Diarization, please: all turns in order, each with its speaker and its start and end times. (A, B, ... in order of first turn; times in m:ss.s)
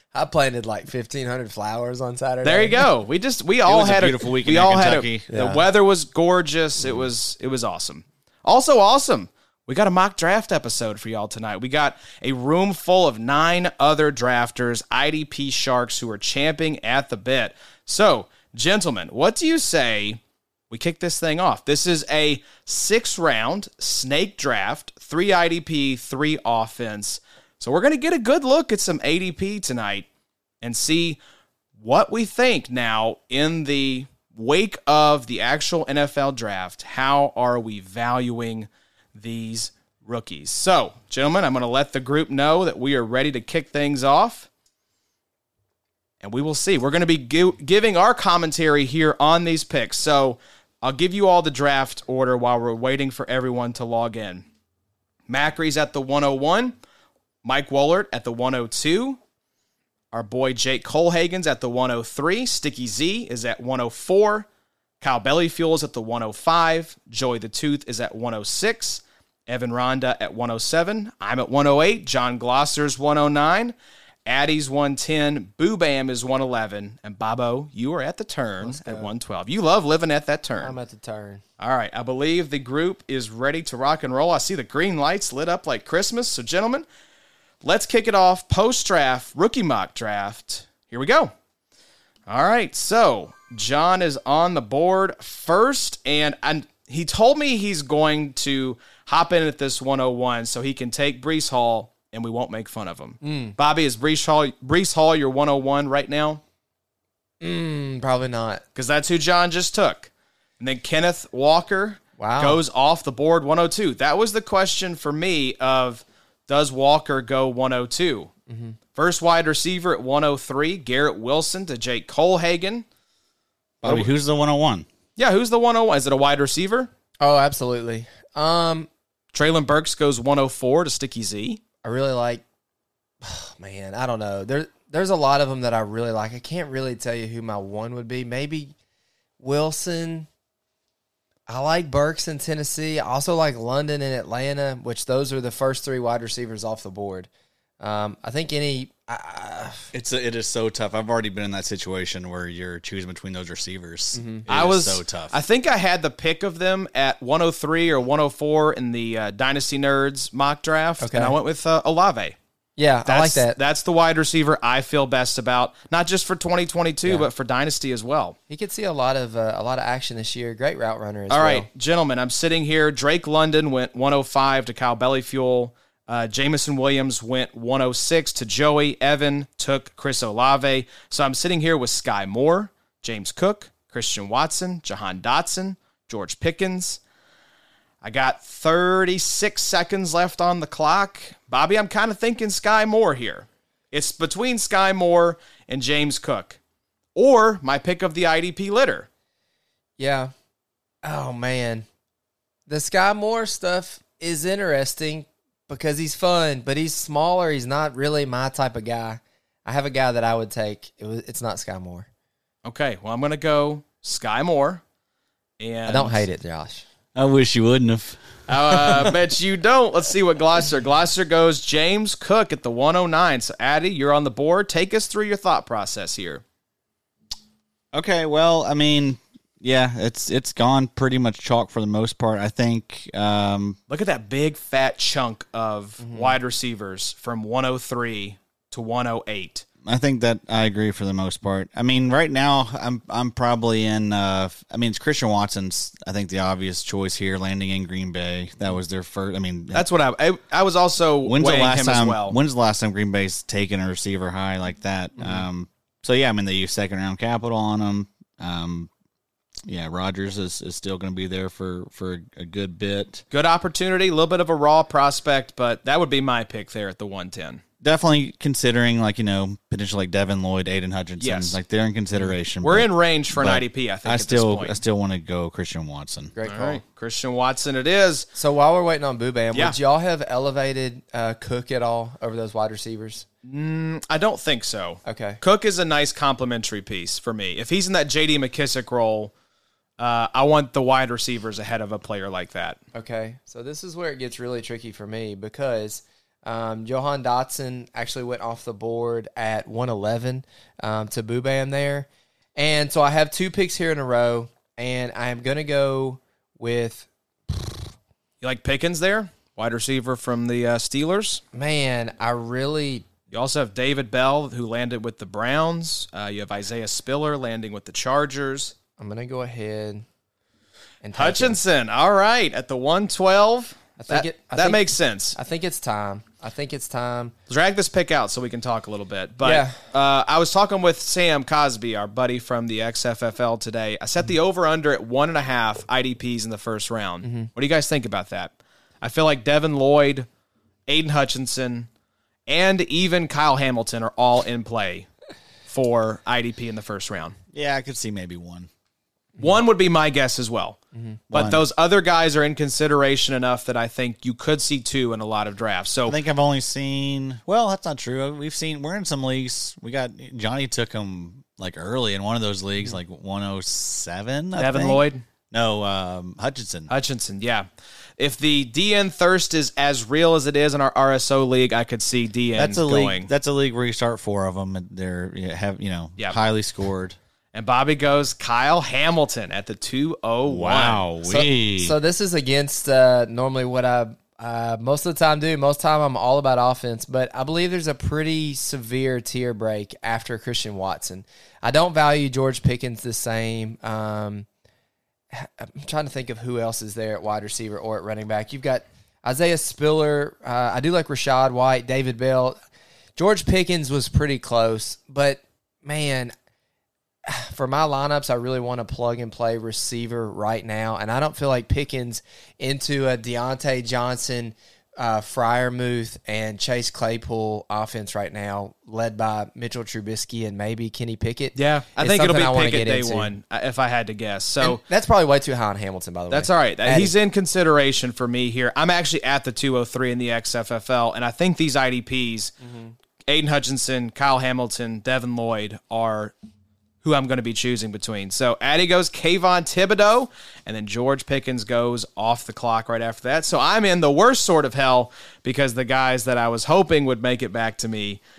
0:00.1-0:02.9 A
0:02.4-0:30.1 B
0:03.6-0:05.2 C
0:05.3-0:05.6 A
0:06.8-0:07.1 A
0:30.6-0:31.2 B
0:31.8-0:44.5 B
0:46.2-0:54.5 B
0:55.3-0:56.8 B
0:57.4-0:59.2 B
1:00.1-1:04.5 B
1:05.0-1:13.7 B
1:14.3-1:20.8 B
1:18.6-1:19.1 A
1:20.6-1:21.4 A
1:21.6-1:26.8 B
1:27.6-1:31.3 B
1:32.3-1:46.4 B
1:43.2-1:43.6 A
1:47.4-1:48.6 A
1:48.8-1:58.3 B
1:52.2-1:52.6 A
1:58.5-1:58.8 A
1:59.0-2:02.8 B
2:03.8-2:04.9 C
2:05.2-2:06.9 B
2:07.2-2:08.9 A
2:09.3-2:11.6 B
2:11.8-2:12.4 A
2:13.2-2:18.7 A
2:19.4-2:20.3 A
2:21.5-2:27.3 A
2:27.8-2:29.9 A
2:29.9-2:35.3 C
2:34.2-2:34.4 A
2:34.5-2:42.4 B
2:41.0-2:41.4 A
2:42.8-2:43.6 A
2:43.1-2:48.4 B
2:48.5-2:51.7 A
2:51.3-3:07.0 B
3:08.0-3:16.6 B
3:17.2-3:19.1 B
3:20.0-3:20.3 A
3:21.0-3:21.8 A
3:22.7-3:32.1 A
3:32.6-3:34.8 B
3:35.6-3:36.2 B
3:35.9-3:36.8 A
3:37.2-3:38.2 C
3:38.5-3:46.4 B
3:47.9-3:53.8 C
3:53.9-3:59.6 B
3:56.0-3:56.4 A
3:59.8-4:09.9 C
4:09.7-4:12.4 B
4:11.2-4:18.9 C
4:15.2-4:15.4 A
4:19.6-4:23.2 C
4:23.3-4:27.6 B
4:27.8-4:36.3 C
4:31.2-4:31.6 B
4:32.6-4:34.8 B
4:36.4-4:36.8 A
4:36.4-4:38.3 B
4:38.4-4:43.3 A
4:43.4-4:49.3 B
4:45.0-4:45.4 A
4:50.0-4:52.8 B
4:52.9-5:07.9 A
5:08.4-5:11.4 B
5:11.5-5:13.1 A
5:13.3-5:18.7 B
5:19.0-5:20.1 A
5:21.0-5:21.6 A
5:21.2-5:25.4 B
5:24.0-5:27.3 A
5:27.5-5:40.3 B
5:29.4-5:29.8 A
5:37.2-5:37.5 A
5:40.9-5:41.9 B
5:42.5-5:45.1 B
5:45.7-5:47.4 B
5:47.5-5:48.7 C
5:49.4-5:50.8 B
5:50.9-5:51.2 A
5:51.3-5:51.6 C
5:51.3-5:56.2 B
5:56.1-6:06.9 C
6:04.6-6:05.2 B
6:06.9-6:07.7 B
6:08.2-6:13.3 B
6:12.6-6:17.2 C
6:17.5-6:21.0 B
6:20.5-6:22.0 C
6:21.2-6:34.5 A
6:35.3-6:42.6 A
6:43.2-6:46.3 A
6:47.2-7:03.3 A
7:01.6-7:04.8 B
7:04.6-7:07.1 A
7:06.3-7:12.5 B
7:12.6-7:13.0 A
7:13.3-7:16.4 B
7:17.0-7:28.2 B